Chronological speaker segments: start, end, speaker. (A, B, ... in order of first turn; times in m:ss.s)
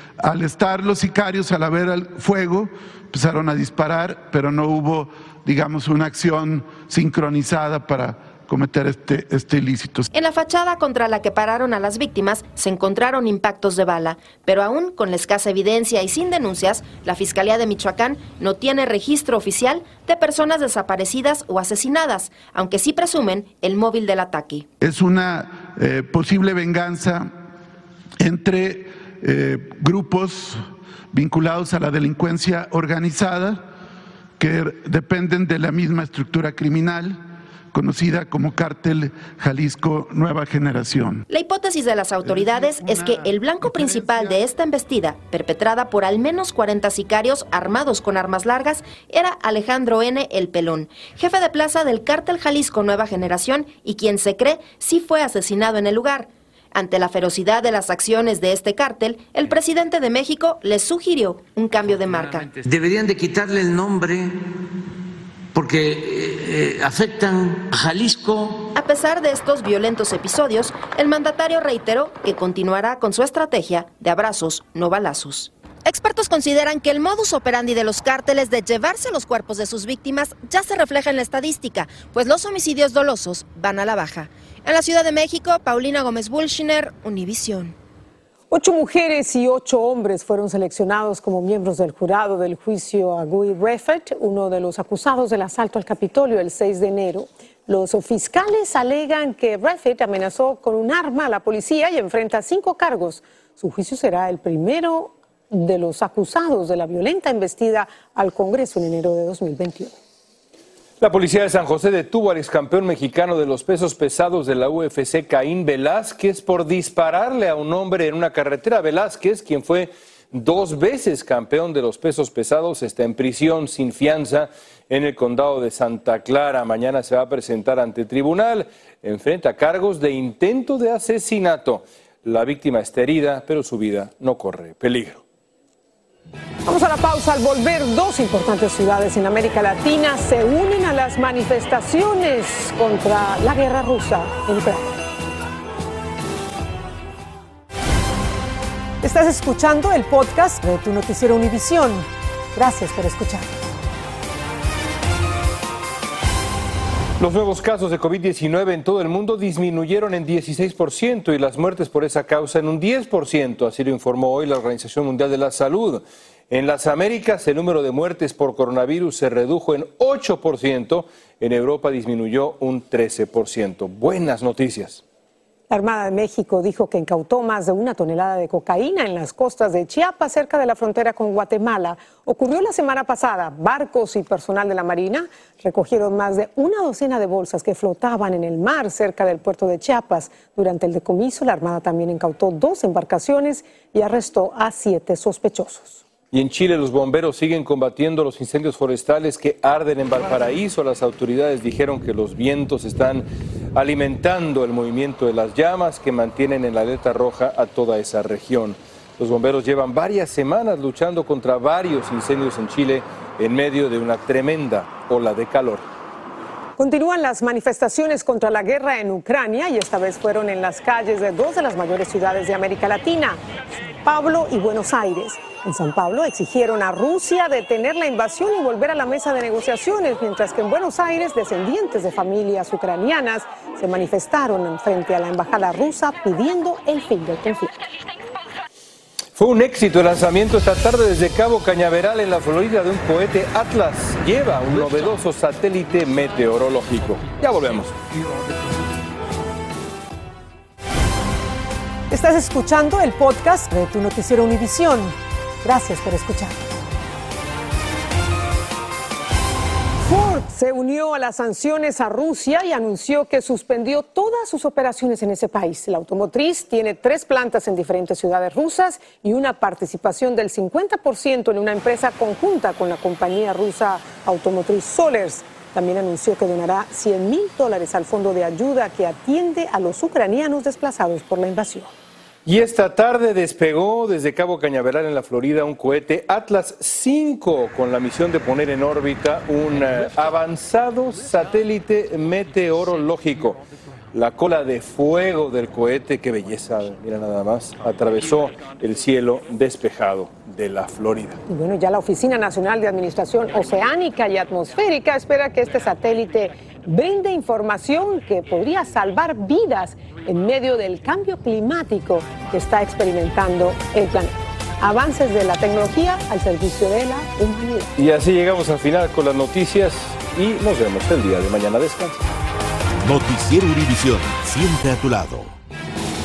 0:00.2-0:10.0 A
0:10.1-0:24.6 B
0:24.8-0:27.3 A
0:28.2-0:33.6 A
0:34.4-0:37.2 A
0:37.7-0:41.2 A
0:41.3-1:02.5 B
1:01.8-1:04.3 C
1:05.5-1:08.6 C
1:08.7-1:27.7 B
1:28.5-1:49.9 D
1:51.0-2:15.2 E
2:16.6-2:25.0 D
2:29.0-2:33.5 D
2:37.2-2:55.0 E
2:55.7-3:16.0 D
3:16.3-3:35.8 E
3:36.8-3:43.4 D
3:44.0-3:57.7 D
3:59.4-4:08.0 E
4:12.1-4:16.6 D
4:20.0-4:41.9 D
4:42.4-5:01.4 E
5:01.5-5:17.9 D
5:18.0-5:22.2 E
5:23.0-5:25.5 F